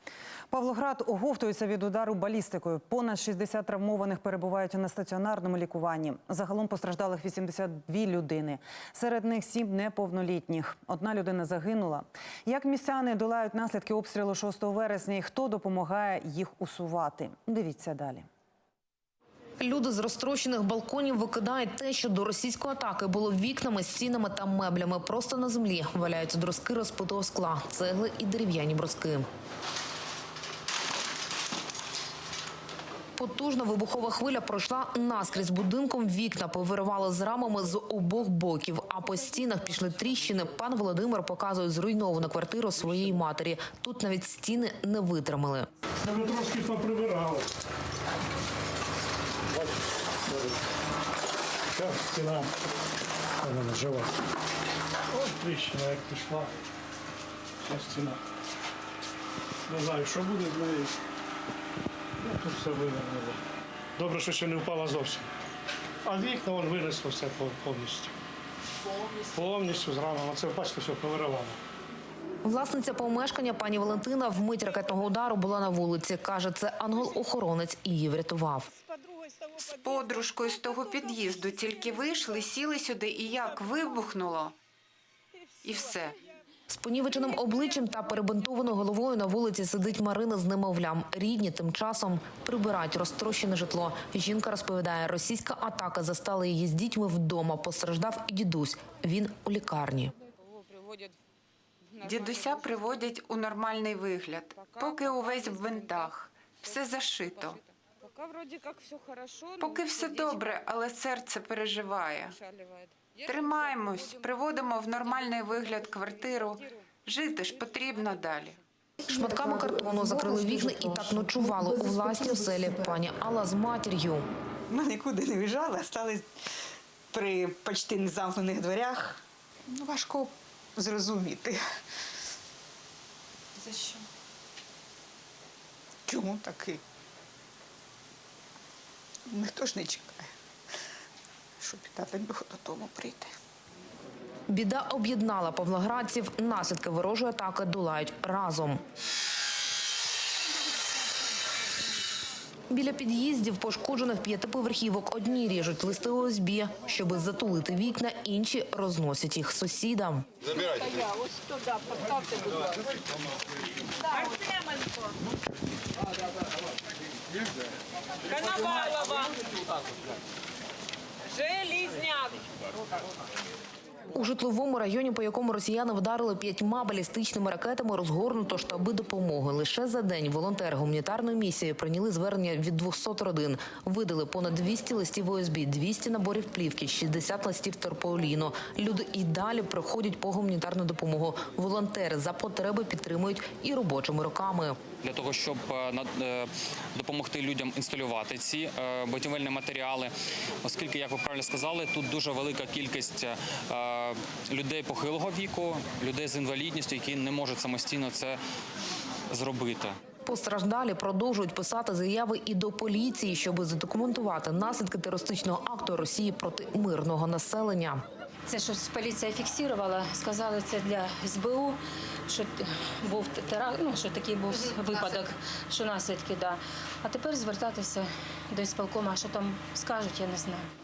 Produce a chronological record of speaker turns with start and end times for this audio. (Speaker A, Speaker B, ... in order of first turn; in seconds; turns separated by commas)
Speaker A: 0.5-18.3, Speaker B: 19.6-29.2, Speaker B: 33.1-45.7, Speaker C: 46.0-47.5, Speaker C: 50.3-50.6, Speaker C: 51.7-52.5, Speaker C: 53.4-54.1, Speaker C: 55.1-56.5, Speaker C: 57.6-58.2, Speaker C: 59.7-60.9, Speaker C: 62.2-63.4, Speaker C: 64.0-65.3, Speaker C: 66.0-68.1, Speaker C: 69.3-71.6, Speaker B: 72.4-78.7, Speaker D: 79.5-84.5, Speaker D: 85.6-86.2, Speaker B: 86.7-100.1, Speaker D: 102.0-107.6, Speaker D: 109.5-112.4, Speaker D: 113.2-118.6, Speaker B: 119.0-124.3, Speaker E: 124.7-126.3, Speaker E: 127.1-131.6, Speaker E: 133.6-134.1, Speaker E: 136.1-136.8, Speaker E: 139.3-140.3, Speaker E: 141.6-143.3, Speaker B: 144.5-148.8, Speaker B: 152.7-160.3, Speaker B: 174.1-194.8, Speaker F: 195.0-208.4, Speaker F: 209.3-209.9, Speaker B: 210.2-218.0, Speaker G: 218.5-230.7